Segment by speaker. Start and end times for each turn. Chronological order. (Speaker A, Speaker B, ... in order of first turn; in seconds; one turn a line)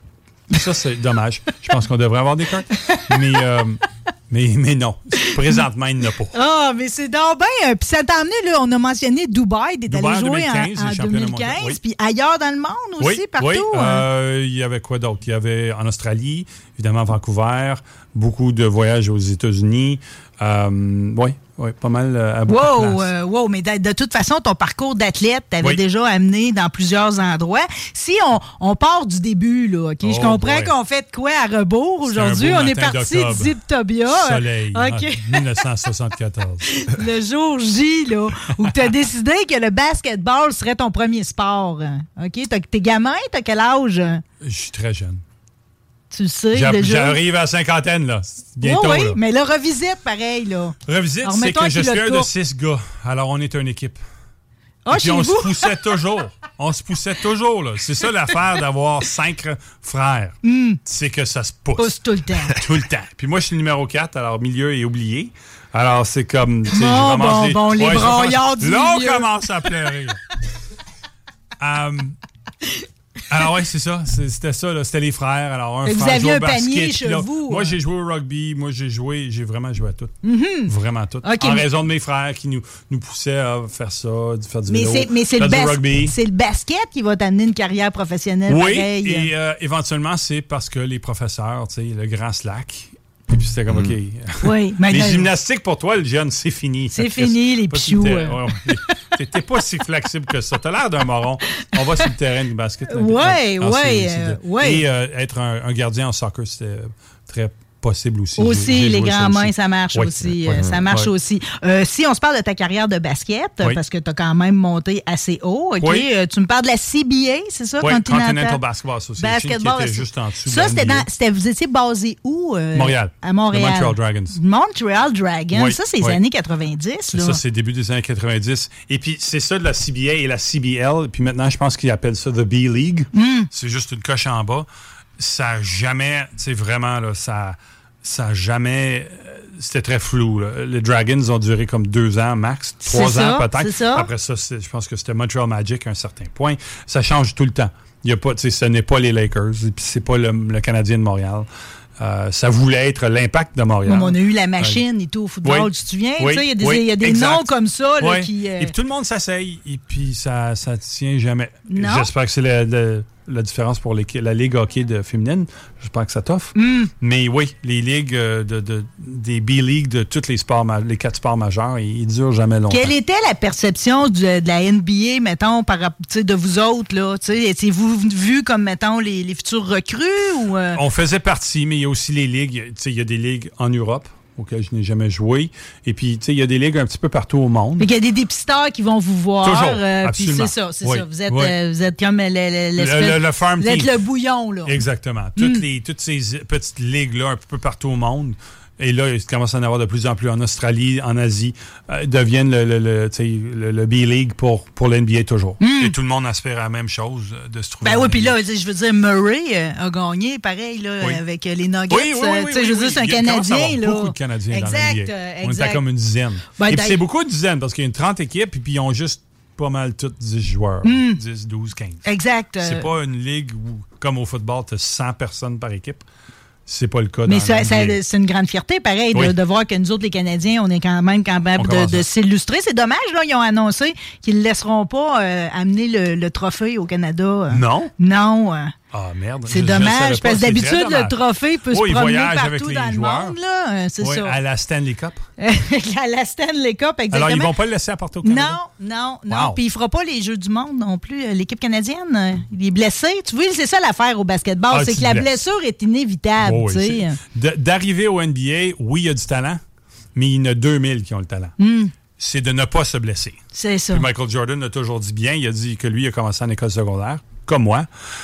Speaker A: 0.5-6.3
Speaker B: 2.8-3.4
Speaker B: 5.2-5.6
Speaker B: 6.3-14.1
Speaker A: 9.9-11.8
Speaker A: 13.0-23.1
Speaker B: 22.5-35.6
Speaker A: 30.0-30.7
Speaker A: 32.0-33.6
Speaker A: 34.1-36.7
Speaker B: 36.7-44.2
Speaker A: 44.4-45.2
Speaker B: 46.1-47.2
Speaker A: 46.5-49.2
Speaker B: 48.6-52.3
Speaker A: 50.9-54.0
Speaker B: 54.9-55.7
Speaker A: 54.9-62.0
Speaker B: 60.4-60.8
Speaker B: 61.8-62.6
Speaker A: 62.5-70.2
Speaker B: 66.7-69.3
Speaker A: 71.6-72.2
Speaker A: 73.3-86.2
Speaker B: 75.8-77.8
Speaker B: 80.2-80.7
Speaker B: 81.2-81.7
Speaker B: 84.7-89.3
Speaker A: 88.5-111.1
Speaker B: 94.4-95.3
Speaker B: 96.9-98.4
Speaker B: 102.9-104.8
Speaker B: 108.4-118.6
Speaker A: 115.8-116.1
Speaker A: 117.8-121.1
Speaker B: 119.2-127.4
Speaker A: 122.8-124.4
Speaker A: 125.5-126.2
Speaker A: 127.1-134.7
Speaker B: 133.2-133.5
Speaker A: 135.2-151.5
Speaker B: 142.8-144.1
Speaker A: 152.0-154.8
Speaker B: 153.8-158.7
Speaker A: 155.4-172.9
Speaker B: 161.7-162.1
Speaker B: 166.6-166.9
Speaker B: 172.7-180.8
Speaker A: 180.8-187.9
Speaker B: 187.8-194.7
Speaker A: 189.4-191.5
Speaker A: 192.8-193.9
Speaker A: 194.7-208.4
Speaker B: 195.4-195.6
Speaker B: 205.6-205.9
Speaker B: 207.8-215.8
Speaker A: 211.9-222.1
Speaker B: 216.6-217.0
Speaker B: 220.8-221.2
Speaker B: 222.1-222.9
Speaker A: 222.6-226.0
Speaker A: 226.7-228.0
Speaker B: 227.3-238.7
Speaker A: 231.6-232.1
Speaker A: 237.5-237.9
Speaker A: 238.9-241.2
Speaker B: 239.5-244.4
Speaker A: 241.7-243.4
Speaker A: 244.0-245.2
Speaker B: 245.4-247.5
Speaker A: 247.1-248.6
Speaker B: 248.2-257.2
Speaker A: 249.3-249.6
Speaker A: 254.7-255.3
Speaker A: 256.4-259.6
Speaker A: 260.2-261.6
Speaker B: 261.6-261.9
Speaker A: 262.2-263.4
Speaker B: 263.5-264.1
Speaker A: 263.9-267.9